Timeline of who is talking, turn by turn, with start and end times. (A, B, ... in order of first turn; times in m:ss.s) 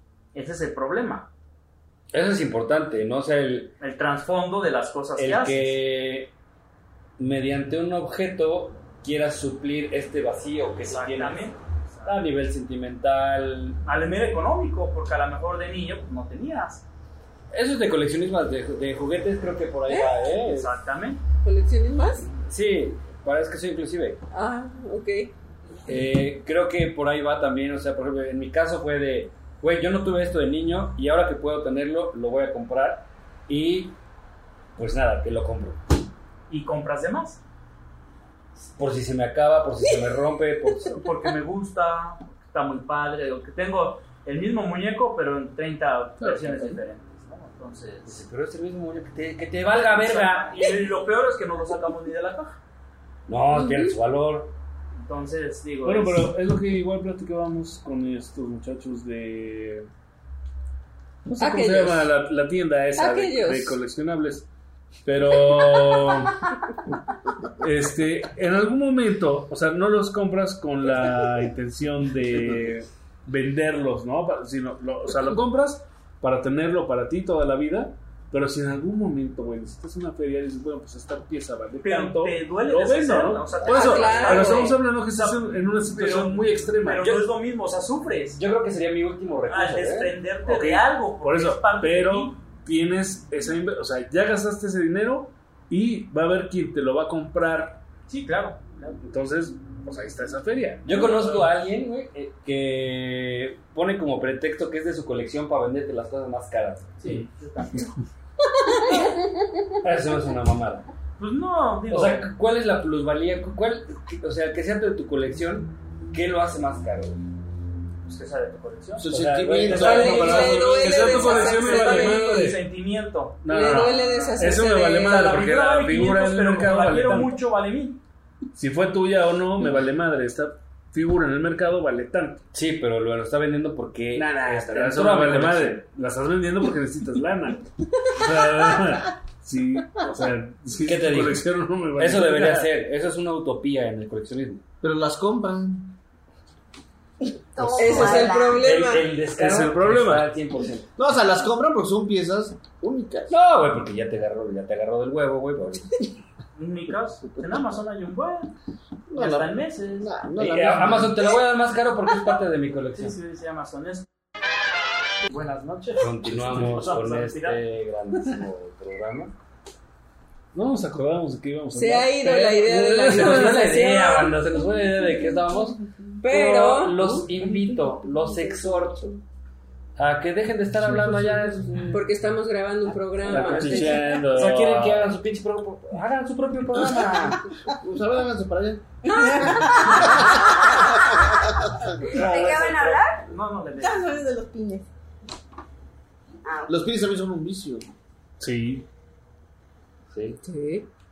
0:00.3-0:01.3 A
0:02.1-0:03.7 B
0:03.8-0:05.8 A
0:05.2-0:06.3 B
0:07.2-0:11.5 B
0:10.8-0:12.2 A
0:12.0-0:13.8 B
0:13.8-0:16.8 A
0:17.5-0:20.7 B
0:19.9-0:20.2 C
0:20.3-0:21.2 A
0:21.4-0:22.3 C
0:22.4-0:24.2 B
0:24.3-0:25.3 C
0:25.9-0:34.0 B
0:34.8-0:35.9 B
0:36.5-0:37.4 A
0:38.6-0:41.1 B
0:41.0-0:48.2 A
0:46.2-0:46.8 D
0:48.0-0:50.8 B
0:49.7-0:52.6 A
0:53.3-0:54.5 B
0:53.6-0:53.9 C
0:55.0-0:56.3 A
0:55.8-0:59.9 D
1:01.2-1:04.5 D
1:01.4-1:02.1 C
1:02.9-1:03.8 C
1:05.0-1:06.5 D
1:07.6-1:27.3 D
1:21.8-1:28.4 A
1:23.6-1:24.8 C
1:28.3-1:30.1 B
1:29.5-1:32.4 A
1:30.4-1:37.8 D
1:38.1-1:39.0 A
1:39.0-1:41.5 D
1:40.8-1:46.9 B
1:47.0-1:48.0 A
1:49.8-1:50.8 B
1:51.2-1:52.3 A
1:51.9-1:57.2 B
1:58.0-1:59.0 A
1:59.0-2:00.9 E
1:59.1-2:00.2 B
1:59.5-2:02.6 D
1:59.7-2:08.0 A
1:59.8-2:02.5 C
2:03.4-2:07.4 D
2:03.5-2:05.2 C
2:08.5-2:12.4 D
2:12.5-2:15.8 B
2:14.1-2:22.7 D
2:20.8-2:24.6 B
2:24.8-2:25.9 E
2:27.5-2:28.8 F
2:27.7-2:29.2 C
2:27.8-2:30.9 B
2:29.2-2:30.3 D
2:31.0-2:33.3 E
2:33.3-2:36.0 B
2:36.6-2:38.5 A
2:39.1-2:41.3 E
2:39.1-2:40.1 A
2:40.4-2:43.2 B
2:42.9-2:44.1 A
2:45.2-2:47.6 A
2:46.0-2:49.3 B
2:50.5-2:53.6 D
2:51.7-2:54.3 C
2:53.0-2:59.1 B
2:56.2-2:57.2 C
3:00.0-3:01.9 B
3:01.9-3:04.2 C
3:03.3-3:05.1 D
3:03.3-3:07.4 B
3:03.3-3:03.8 A
3:07.7-3:08.8 E
3:09.0-3:11.1 G
3:09.4-3:10.3 E
3:11.0-3:12.2 E
3:12.1-3:14.1 A
3:12.2-3:13.2 F
3:13.8-3:14.9 G
3:16.4-3:16.7 F
3:16.7-3:17.8 E
3:18.4-3:18.8 D
3:20.1-3:20.4 B
3:20.4-3:20.9 C